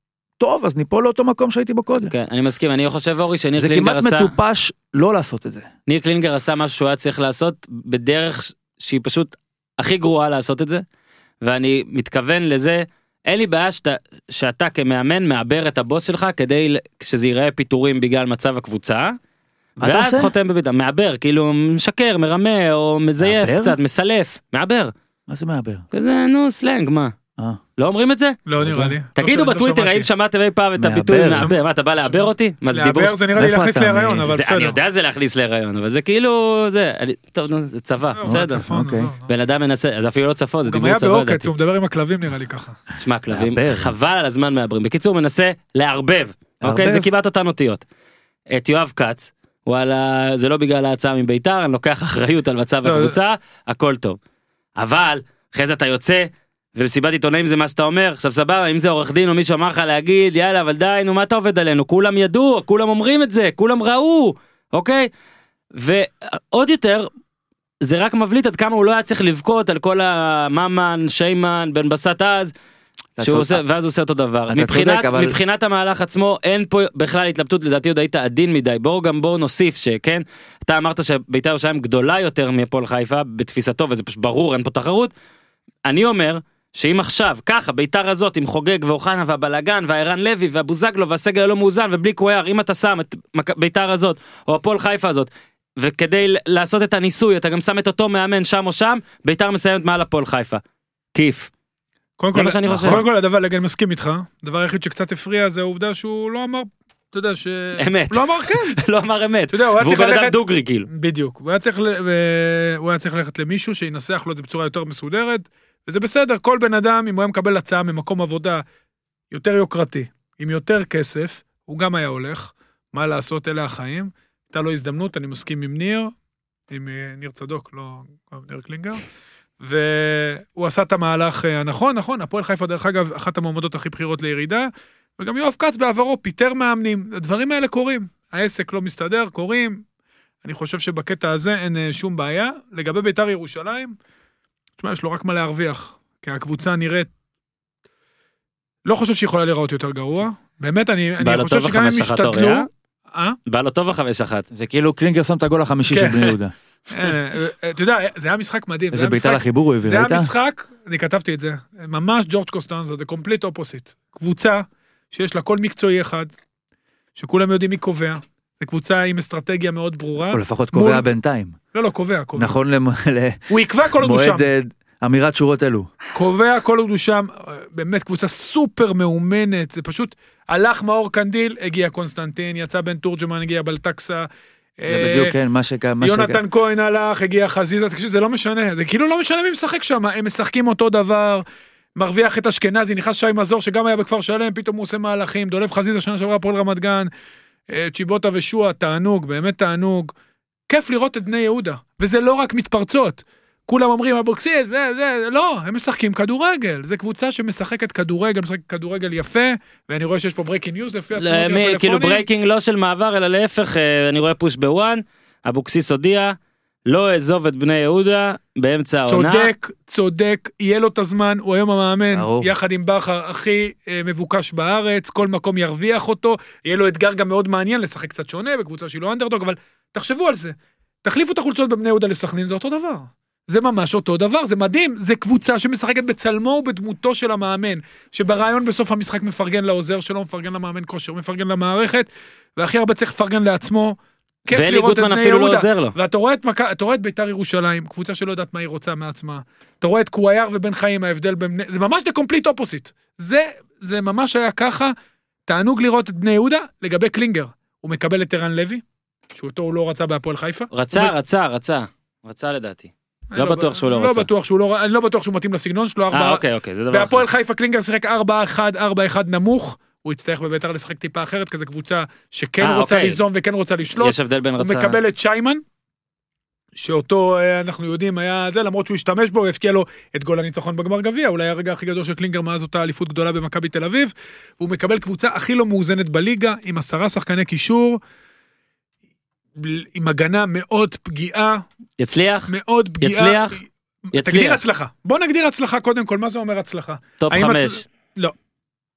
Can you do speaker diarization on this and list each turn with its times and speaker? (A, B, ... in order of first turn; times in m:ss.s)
0:00.4-0:02.1 A
0:02.1-0:04.3 B
0:03.6-0:05.7 A
0:05.9-0:10.8 B
0:11.4-0:19.2 B
0:19.8-0:20.3 A
0:19.8-0:24.9 B
0:23.2-0:23.8 A
0:25.3-0:25.8 A
0:25.9-0:27.1 B
0:27.8-0:28.4 B
0:28.5-0:30.1 C
0:28.6-0:29.0 A
0:29.2-0:33.2 B
0:30.8-0:31.5 A
0:31.4-0:34.8 C
0:33.4-0:34.3 A
0:34.3-0:38.6 B
0:38.2-0:39.2 C
0:38.3-0:39.1 A
0:39.3-0:41.5 B
0:40.7-0:42.8 C
0:43.0-0:47.8 B
0:43.3-0:43.9 A
0:46.6-0:47.1 A
0:48.5-0:54.2 B
0:52.8-0:53.2 C
0:54.8-1:05.1 B
1:05.8-1:07.1 B
1:07.8-1:12.5 B
1:13.2-1:13.6 A
1:13.2-1:25.1 B
1:14.5-1:15.4 A
1:25.8-1:40.6 B
1:41.1-1:41.5 B
1:42.2-1:48.8 C
1:42.3-1:43.0 B
1:42.7-1:43.0 A
1:47.8-1:50.9 B
1:49.5-1:50.4 C
1:50.9-1:58.6 C
1:59.3-2:06.1 C
2:06.7-2:09.0 C
2:09.6-2:14.7 C
2:15.2-2:19.8 C
2:20.4-2:24.0 C
2:24.8-2:27.1 C
2:28.9-2:33.4 C
2:31.2-2:32.7 B
2:33.5-2:34.5 B
2:34.5-2:36.5 A
2:35.9-2:36.4 C
2:36.9-2:46.3 C
2:38.9-2:40.3 A
2:47.2-2:51.1 C
2:50.3-2:51.6 A
2:51.7-2:52.6 C
2:52.4-2:55.9 A
2:53.5-2:54.5 C
2:56.1-3:04.3 C
3:04.8-3:05.3 C
3:04.9-3:06.4 A
3:06.0-3:11.4 C
3:12.0-3:17.1 C
3:17.7-3:20.1 C
3:20.7-3:32.2 C
3:31.2-3:36.4 B
3:36.9-3:39.5 B
3:39.1-4:14.9 C
3:42.1-3:42.5 A
4:04.5-4:06.0 B
4:15.5-4:18.8 C
4:19.3-4:21.1 C
4:20.7-4:24.3 B
4:23.3-4:35.6 C
4:26.1-4:27.3 B
4:32.6-4:33.2 B
4:34.0-4:35.0 B
4:36.8-4:48.0 C
4:49.6-4:51.6 C
4:52.0-4:53.6 B
4:52.5-4:58.3 C
4:54.1-4:54.6 B
4:57.2-4:57.8 B